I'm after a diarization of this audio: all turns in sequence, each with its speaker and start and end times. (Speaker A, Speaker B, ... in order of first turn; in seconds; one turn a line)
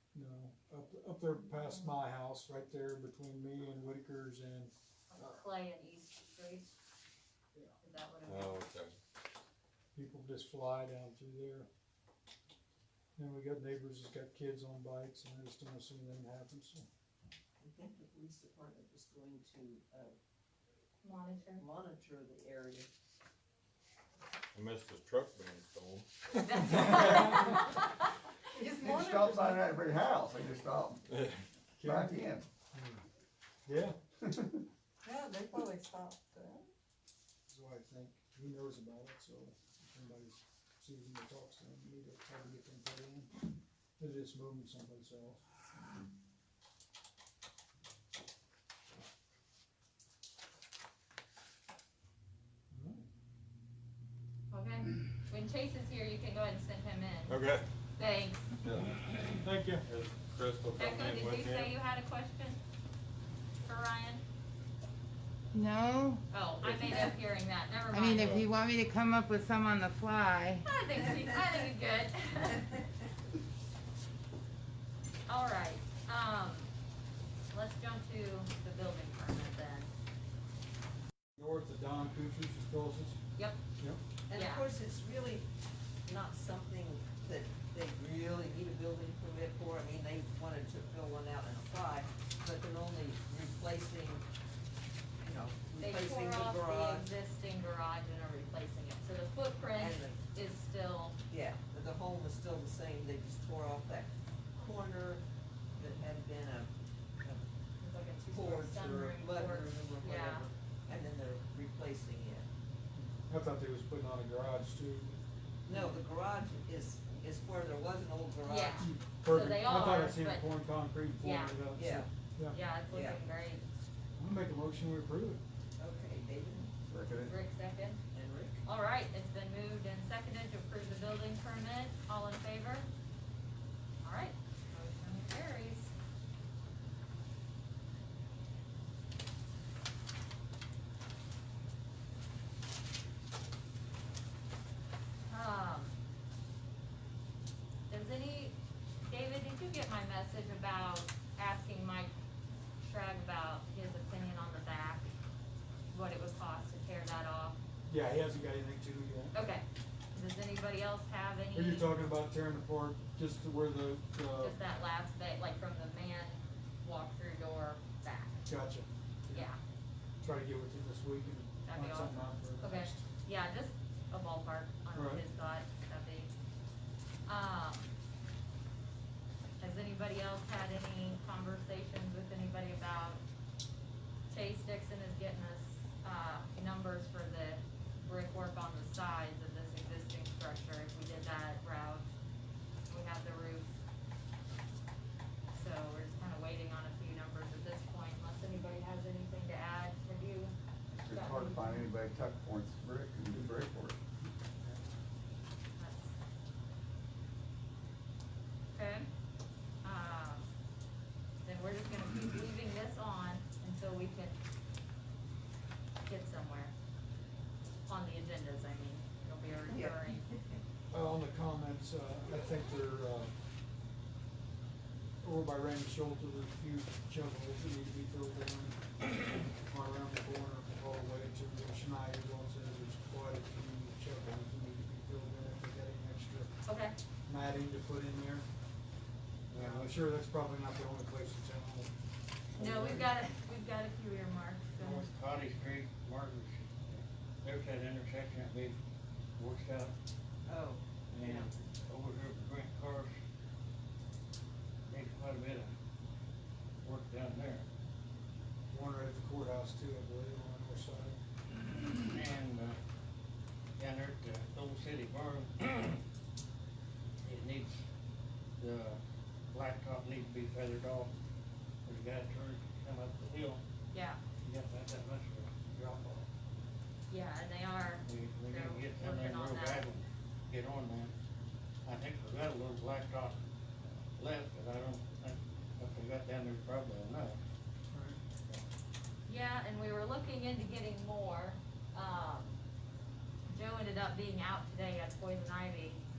Speaker A: 0.1-4.7
Speaker B: 5.1-6.7
Speaker B: 7.8-8.5
Speaker C: 8.2-8.9
Speaker A: 9.9-11.7
Speaker A: 13.2-16.9
Speaker D: 17.6-20.1
Speaker B: 21.0-21.6
Speaker D: 21.6-22.9
Speaker C: 24.5-26.1
Speaker B: 26.4-27.7
Speaker A: 26.5-27.6
Speaker D: 28.6-29.6
Speaker E: 28.7-31.0
Speaker C: 31.1-31.4
Speaker A: 31.8-32.2
Speaker E: 31.8-32.5
Speaker A: 32.7-33.0
Speaker A: 33.7-34.0
Speaker E: 34.2-34.6
Speaker D: 35.0-36.7
Speaker A: 37.5-43.3
Speaker A: 44.0-45.5
Speaker A: 52.7-53.1
Speaker B: 54.5-57.4
Speaker C: 57.3-57.7
Speaker B: 58.0-58.5
Speaker C: 58.6-61.7
Speaker A: 59.4-59.9
Speaker B: 60.8-62.6
Speaker B: 63.6-64.2
Speaker F: 65.5-66.2
Speaker B: 66.3-68.4
Speaker C: 66.6-66.9
Speaker F: 67.9-70.6
Speaker B: 70.7-72.8
Speaker B: 75.3-76.7
Speaker B: 77.5-79.9
Speaker A: 81.4-83.2
Speaker D: 84.3-85.5
Speaker B: 84.3-84.7
Speaker D: 86.0-94.2
Speaker D: 95.2-97.1
Speaker B: 95.8-101.2
Speaker D: 99.8-100.2
Speaker D: 101.3-105.2
Speaker D: 105.8-107.5
Speaker B: 107.8-110.5
Speaker D: 108.3-112.5
Speaker A: 113.0-116.0
Speaker D: 115.7-118.9
Speaker B: 118.5-120.5
Speaker A: 118.8-122.6
Speaker B: 121.2-121.6
Speaker D: 121.7-122.1
Speaker B: 122.5-123.7
Speaker D: 122.9-123.2
Speaker A: 124.2-125.4
Speaker D: 125.8-126.8
Speaker E: 126.9-127.3
Speaker B: 127.2-128.0
Speaker D: 128.1-128.6
Speaker B: 128.7-132.9
Speaker B: 134.0-135.9
Speaker B: 145.3-146.0
Speaker B: 147.9-152.1
Speaker B: 152.8-155.1
Speaker B: 155.9-157.6
Speaker A: 157.9-159.3
Speaker B: 159.3-161.9
Speaker A: 161.5-164.6
Speaker B: 164.4-168.5
Speaker A: 168.5-169.5
Speaker B: 169.3-169.6
Speaker A: 170.2-173.1
Speaker B: 171.7-176.3
Speaker A: 174.9-175.2
Speaker B: 177.3-177.9
Speaker B: 179.6-183.2
Speaker B: 184.3-192.1
Speaker B: 192.9-193.8
Speaker B: 195.5-200.5
Speaker E: 200.9-204.0
Speaker B: 201.1-201.9
Speaker B: 205.8-206.2
Speaker B: 208.7-209.1
Speaker B: 209.8-210.5
Speaker B: 211.4-214.4
Speaker B: 216.0-216.7
Speaker B: 217.9-220.2
Speaker D: 219.7-220.6
Speaker A: 220.9-223.3
Speaker A: 225.2-236.5
Speaker B: 236.7-236.9
Speaker A: 237.3-238.5
Speaker G: 239.5-240.0
Speaker A: 239.5-241.9
Speaker G: 242.6-243.1
Speaker B: 242.6-245.1
Speaker G: 244.8-248.8
Speaker G: 249.4-249.9
Speaker D: 250.5-250.8
Speaker G: 251.1-253.2
Speaker B: 251.2-251.5
Speaker G: 254.9-255.7
Speaker G: 256.8-257.7
Speaker A: 258.7-261.2
Speaker G: 262.0-262.8
Speaker G: 263.8-266.0
Speaker G: 267.2-267.8
Speaker G: 268.6-271.1
Speaker G: 271.9-273.6
Speaker B: 273.9-274.2
Speaker G: 274.4-276.3
Speaker B: 277.1-279.9
Speaker G: 278.0-281.1
Speaker G: 281.9-287.4
Speaker A: 287.9-288.2
Speaker B: 289.3-292.6
Speaker B: 293.5-296.0